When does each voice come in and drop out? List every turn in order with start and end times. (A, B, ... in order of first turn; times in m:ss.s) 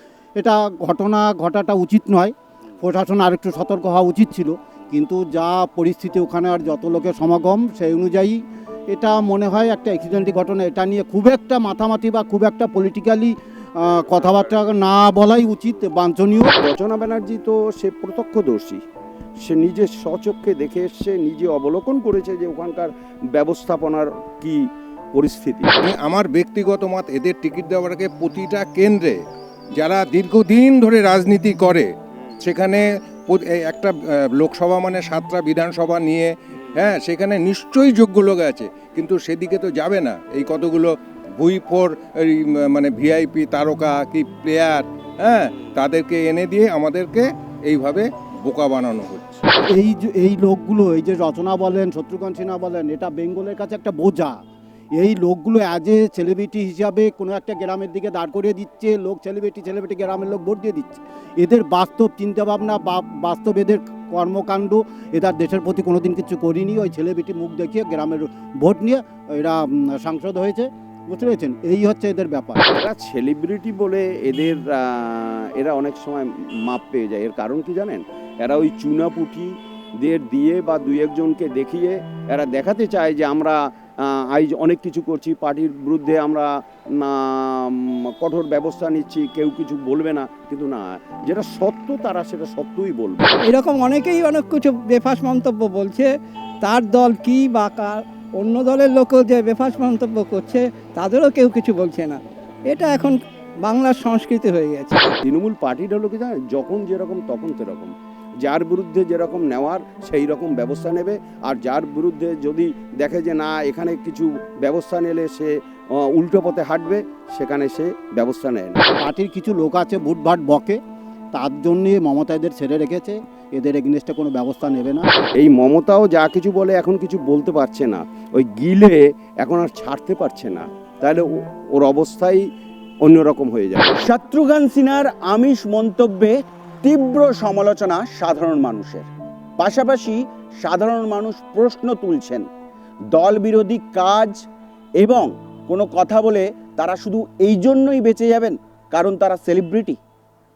0:00.4-0:16.5 A
0:14.1-0:14.6 B
0:16.6-0:18.8 B
0:19.4-0:25.7 B
0:25.8-0:29.2 C
0:29.8-0:31.9 C
0:32.4-0:49.5 C
0:49.7-0:54.4 A
0:54.9-1:12.6 A
1:12.7-1:33.4 B
1:33.4-1:45.0 D
1:45.2-1:47.9 B
1:48.4-1:58.8 B
1:59.0-2:00.8 A
2:01.3-2:05.1 A
2:05.4-2:12.5 B
2:13.0-2:14.0 B
2:14.0-2:16.3 E
2:16.8-2:19.1 E
2:19.6-2:22.5 E
2:23.1-2:24.4 E
2:25.0-2:30.0 E